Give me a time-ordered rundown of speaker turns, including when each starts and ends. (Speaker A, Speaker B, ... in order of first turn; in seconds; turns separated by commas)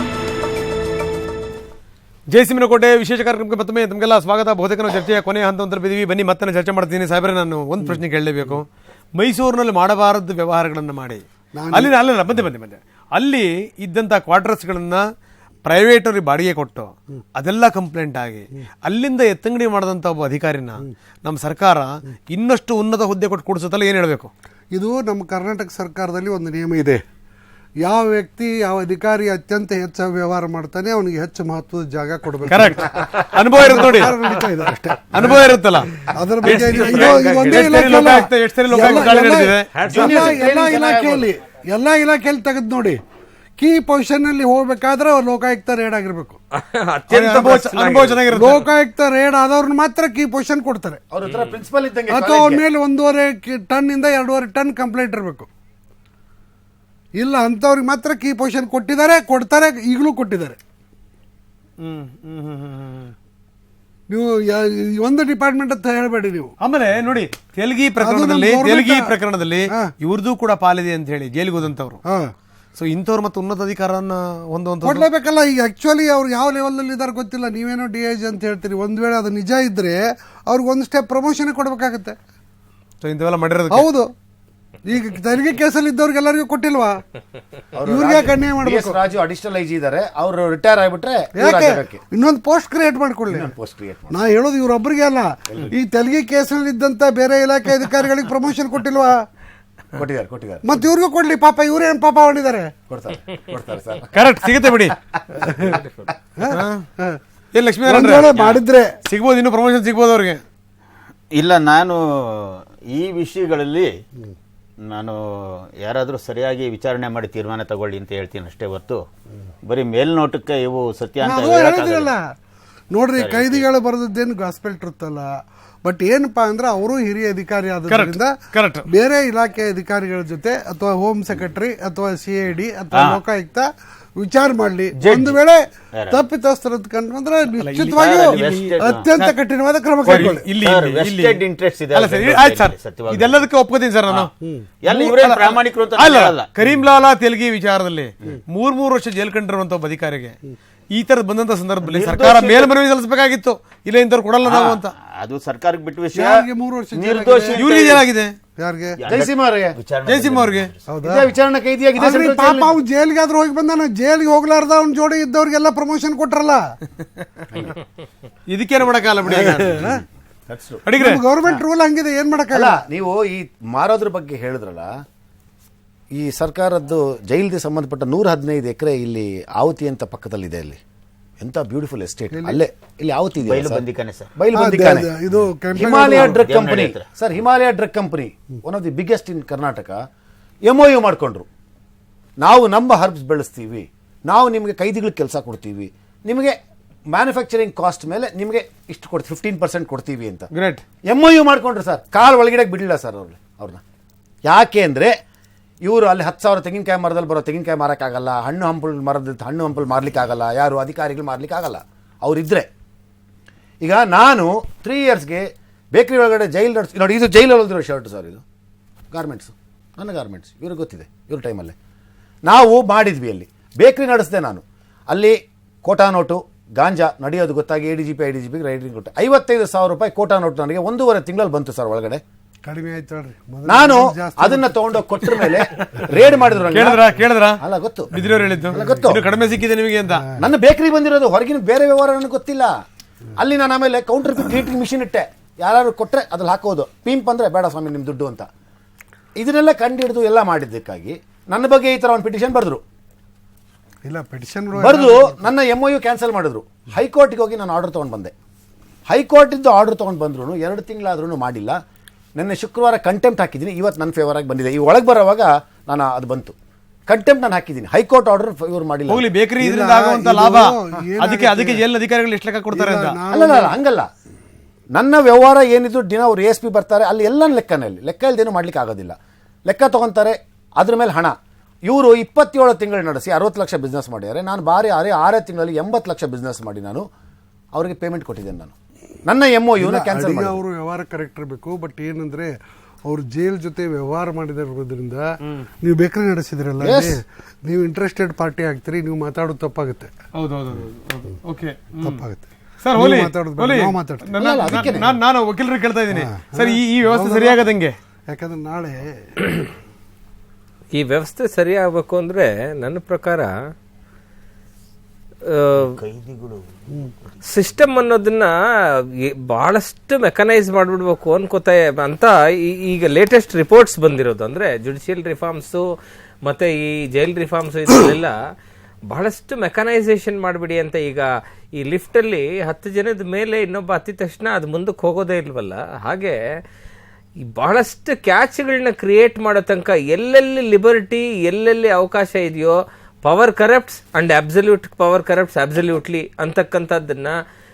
Speaker A: 2.3-15.0, Speaker B: 7.8-8.6, Speaker B: 11.5-12.0, Speaker A: 15.6-24.3, Speaker B: 24.7-27.0, Speaker B: 27.8-43.0, Speaker A: 32.5-34.1, Speaker A: 35.1-35.9, Speaker A: 36.4-39.7, Speaker C: 36.7-37.0, Speaker C: 39.7-40.4, Speaker D: 39.8-41.3, Speaker B: 43.6-46.4, Speaker C: 46.5-48.2, Speaker A: 47.1-48.7, Speaker B: 48.2-51.0, Speaker D: 51.1-52.6, Speaker B: 52.1-55.5, Speaker B: 57.1-60.6, Speaker A: 61.8-63.1, Speaker B: 64.1-66.5, Speaker A: 66.6-72.0, Speaker B: 68.0-69.2, Speaker B: 72.0-72.3, Speaker A: 72.8-75.0, Speaker B: 74.8-82.2, Speaker A: 83.0-83.9, Speaker B: 83.7-84.1, Speaker B: 84.8-87.0, Speaker D: 87.7-92.0, Speaker B: 87.8-89.0, Speaker B: 91.3-93.5, Speaker D: 93.3-94.2, Speaker B: 94.1-99.3, Speaker D: 100.0-100.7, Speaker B: 100.6-102.7, Speaker D: 102.9-104.2, Speaker A: 104.1-104.9, Speaker B: 105.4-105.8, Speaker B: 106.4-107.2, Speaker A: 106.5-106.8, Speaker A: 107.5-108.4, Speaker B: 107.8-109.0, Speaker A: 109.0-110.4, Speaker E: 111.3-114.0, Speaker E: 114.8-119.0, Speaker E: 119.6-122.1, Speaker B: 121.2-122.2, Speaker B: 122.9-128.4, Speaker E: 123.2-123.7, Speaker A: 127.9-128.9, Speaker B: 128.9-140.6, Speaker E: 132.9-133.2, Speaker E: 135.0-135.4, Speaker E: 135.9-136.2, Speaker A: 137.5-139.3, Speaker E: 138.0-139.1, Speaker A: 140.0-144.3, Speaker E: 140.6-143.5, Speaker B: 144.4-144.7, Speaker E: 144.8-146.5, Speaker A: 144.8-150.3, Speaker A: 150.9-154.9, Speaker E: 151.8-152.7, Speaker E: 154.4-156.4, Speaker B: 156.1-157.7, Speaker E: 156.9-158.1, Speaker A: 157.5-158.3, Speaker B: 158.6-159.0, Speaker E: 159.0-160.8, Speaker D: 159.1-159.8, Speaker A: 160.0-160.7, Speaker B: 160.9-161.3, Speaker D: 161.0-162.7, Speaker B: 162.0-166.8, Speaker A: 168.5-169.9, Speaker B: 169.2-170.0, Speaker D: 170.5-170.8, Speaker A: 170.8-171.2, Speaker B: 170.9-172.8, Speaker D: 172.5-174.9, Speaker D: 176.1-180.8, Speaker D: 181.4-183.8, Speaker B: 182.3-182.6, Speaker E: 183.5-184.3, Speaker D: 184.3-185.1, Speaker B: 184.5-186.5, Speaker D: 185.8-190.0, Speaker E: 185.8-187.0, Speaker D: 190.7-191.4, Speaker D: 192.4-196.6, Speaker D: 197.1-200.5, Speaker A: 200.5-200.8, Speaker D: 201.1-203.8, Speaker D: 204.4-205.1, Speaker D: 205.8-212.7, Speaker D: 213.8-218.4, Speaker D: 219.1-221.7, Speaker D: 222.4-232.2, Speaker B: 232.6-235.5, Speaker D: 233.6-237.0, Speaker A: 236.7-237.6, Speaker D: 237.6-238.1, Speaker A: 238.1-240.2, Speaker B: 238.2-239.1, Speaker D: 238.7-239.2, Speaker B: 240.0-240.4, Speaker D: 240.4-242.7, Speaker D: 243.4-248.5, Speaker D: 249.4-252.8, Speaker B: 254.0-255.5, Speaker D: 254.7-258.3, Speaker D: 259.1-261.8, Speaker D: 262.4-266.5, Speaker D: 267.1-269.2, Speaker A: 269.1-273.2, Speaker B: 269.6-271.9, Speaker B: 272.7-273.8, Speaker D: 273.3-274.1, Speaker D: 274.9-287.1, Speaker D: 287.7-288.7, Speaker D: 289.2-290.6, Speaker B: 289.8-295.3, Speaker B: 295.8-300.1, Speaker D: 296.8-297.2, Speaker A: 300.3-302.2, Speaker B: 302.0-304.4, Speaker A: 302.8-308.0, Speaker D: 304.4-305.1, Speaker B: 306.1-307.6, Speaker B: 308.3-309.6, Speaker C: 310.9-313.5, Speaker C: 315.5-315.9, Speaker E: 315.8-316.7, Speaker C: 317.5-318.5, Speaker C: 319.5-325.8, Speaker C: 326.4-328.3, Speaker C: 329.1-336.4, Speaker C: 337.5-347.3